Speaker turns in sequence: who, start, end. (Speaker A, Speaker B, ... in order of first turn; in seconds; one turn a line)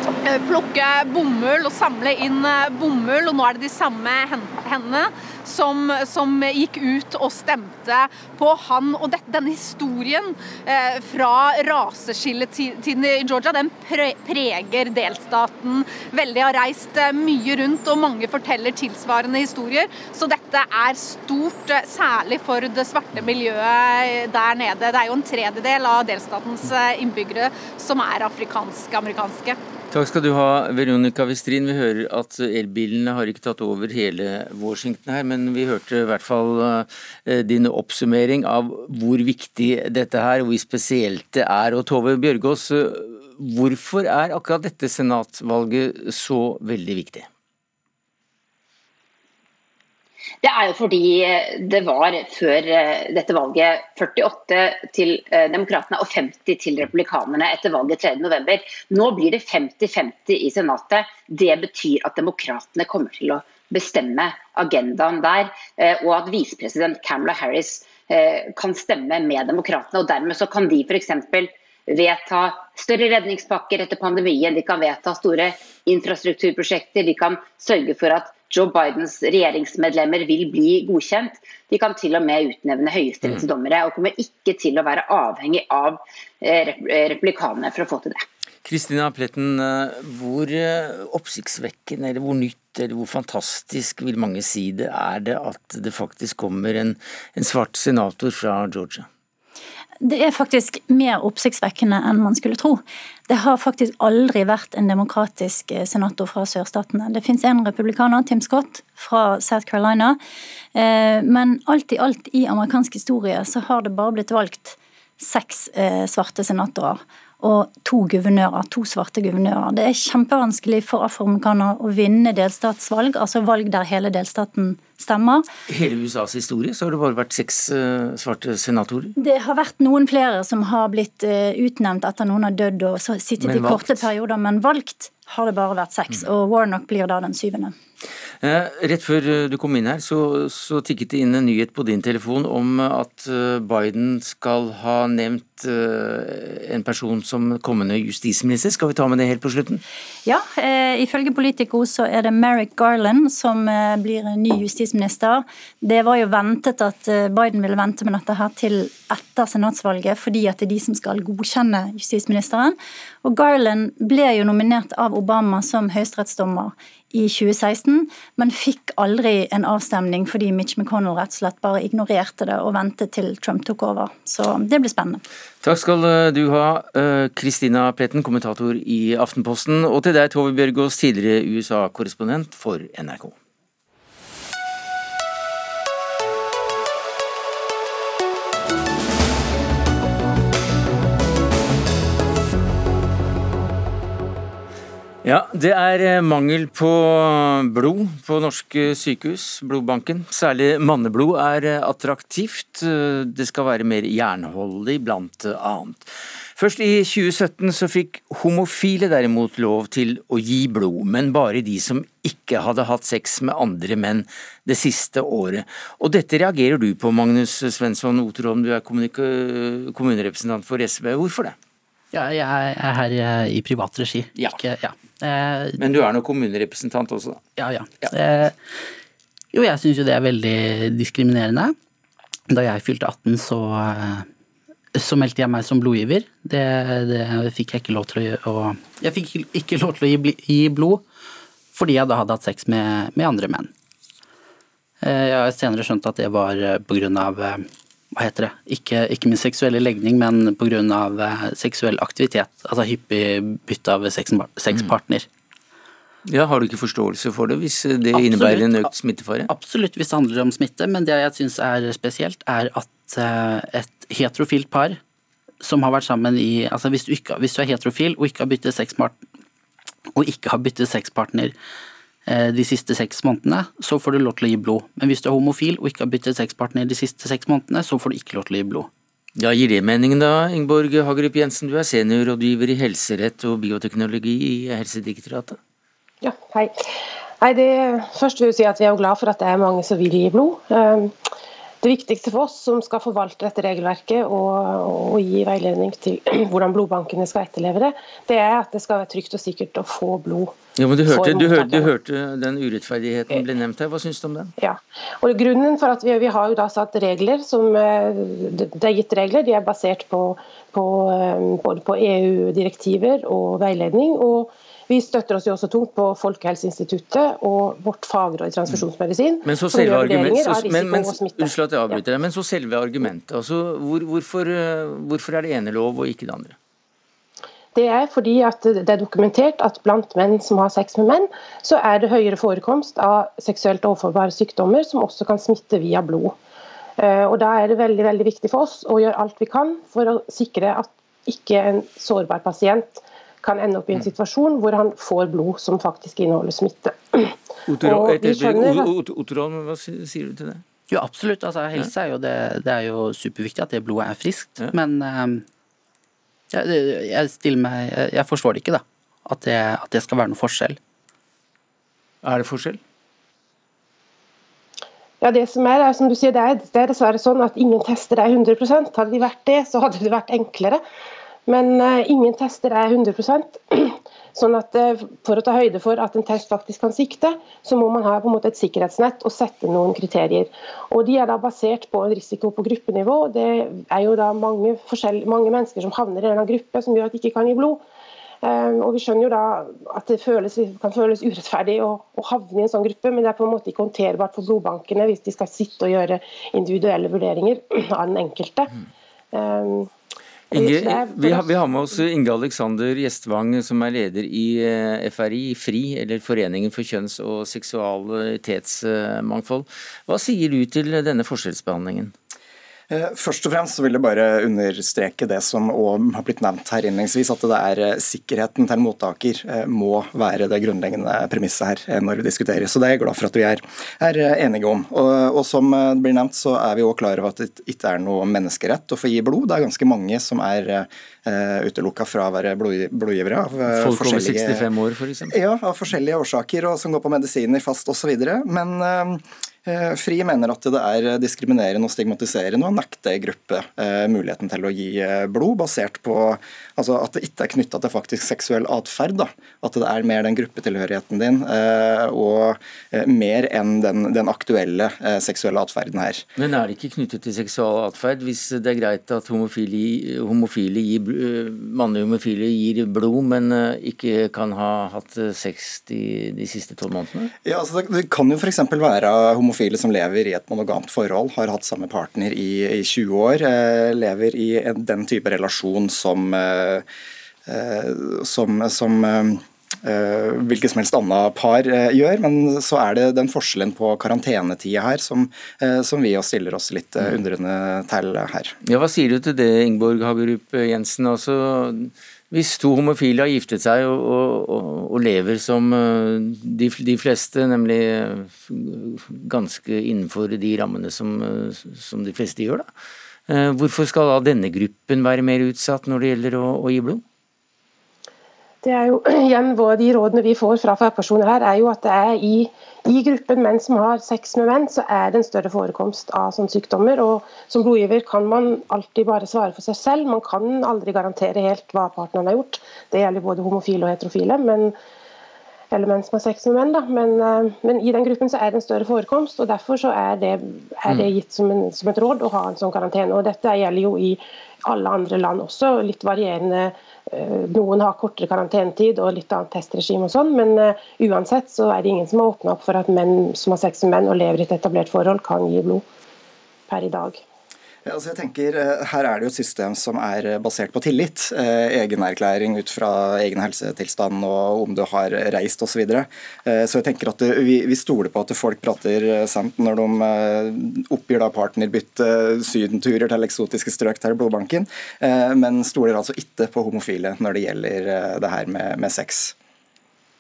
Speaker A: 0.2-29.6
Speaker B: 29.9-47.3
Speaker C: 50.4-88.2
Speaker B: 88.7-99.1
Speaker D: 100.0-110.2
Speaker D: 110.8-125.5
Speaker B: 125.7-129.1
Speaker D: 129.2-137.7
Speaker B: 133.4-134.1
Speaker B: 138.4-149.8
Speaker D: 150.3-175.2
Speaker B: 175.6-183.4
Speaker B: 195.2-221.6
Speaker E: 222.1-225.8
Speaker B: 225.8-227.4
Speaker E: 227.6-228.6
Speaker E: 229.5-231.8
Speaker E: 232.5-234.3
Speaker E: 234.9-241.0
Speaker E: 241.7-243.7
Speaker E: 245.0-255.3
Speaker B: 256.3-259.5
Speaker E: 258.1-258.9
Speaker E: 259.5-265.0
Speaker E: 265.6-269.2
Speaker E: 270.1-271.5
Speaker E: 272.3-278.9
Speaker B: 279.4-285.6
Speaker F: 286.2-286.7
Speaker F: 287.4-291.2
Speaker F: 291.8-300.6
Speaker B: 300.8-304.5
Speaker F: 301.1-301.9
Speaker F: 304.6-322.0
Speaker B: 319.4-326.6
Speaker F: 327.8-336.4
Speaker F: 337.0-348.9
Speaker B: 347.7-350.6
Speaker E: 350.9-355.4
Speaker E: 356.5-360.8
Speaker B: 362.2-362.8
Speaker F: 365.2-370.8
Speaker F: 371.5-387.8
Speaker F: 388.4-398.7
Speaker F: 399.3-399.9
Speaker B: 400.5-412.1
Speaker F: 400.5-401.6
Speaker G: 412.9-434.7
Speaker B: 433.7-435.4
Speaker G: 435.3-456.2
Speaker B: 456.4-467.3
Speaker G: 467.4-476.9
Speaker G: 477.5-488.6
Speaker B: 488.6-502.7
Speaker B: 503.3-507.0
Speaker F: 508.6-524.7
Speaker F: 525.7-545.9
Speaker F: 546.7-547.2
Speaker G: 547.9-569.3